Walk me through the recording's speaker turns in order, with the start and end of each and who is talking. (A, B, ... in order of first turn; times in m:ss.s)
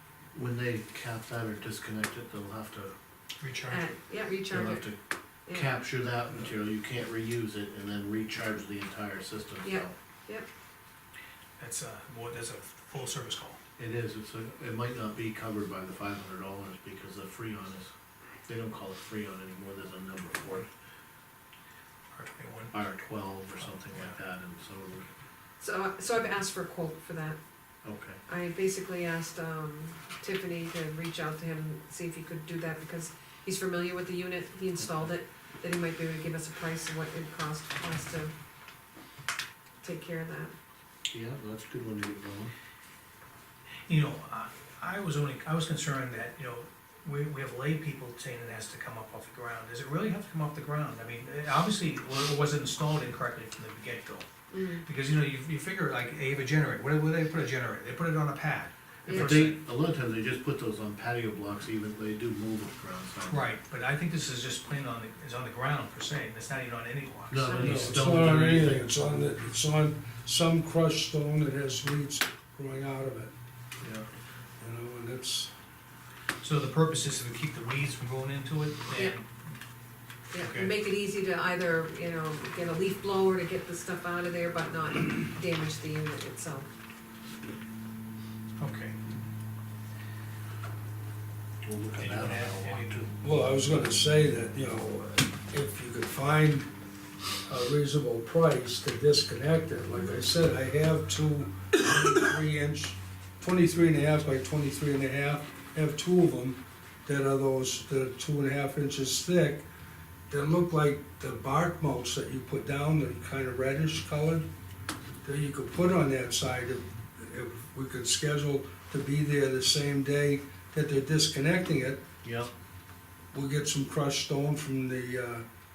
0:00.3-0:03.0 A
0:03.4-0:03.8 B
0:03.7-0:04.9 C
0:04.5-0:05.0 A
0:05.5-0:05.7 C
0:05.5-0:09.9 A
0:09.6-0:10.5 C
0:11.6-0:13.6 B
0:13.8-0:17.9 A
0:18.5-0:20.7 A
0:22.1-0:22.8 B
0:22.7-0:25.1 A
0:23.6-0:24.2 B
0:25.6-0:27.4 C
0:27.8-0:28.2 A
0:28.3-0:38.3 C
0:39.8-0:40.5 C
0:41.1-0:42.5 A
0:43.9-0:54.3 B
0:54.5-0:54.8 C
0:54.8-0:59.6 B
0:59.1-0:59.4 C
0:59.1-1:03.5 A
1:03.3-1:08.2 B
1:07.3-1:08.8 A
1:07.4-1:07.7 C
1:07.6-1:13.3 D
1:13.8-1:14.1 A
1:14.6-1:15.5 D
1:16.4-1:19.3 B
1:20.3-1:26.7 C
1:20.4-1:20.7 B
1:28.6-1:29.0 B
1:31.6-1:33.1 A
1:32.0-1:33.0 B
1:33.2-1:36.7 D
1:37.5-1:49.6 D
1:50.3-1:54.4 D
1:55.2-2:02.0 D
2:02.2-2:02.5 A
2:03.3-2:05.4 D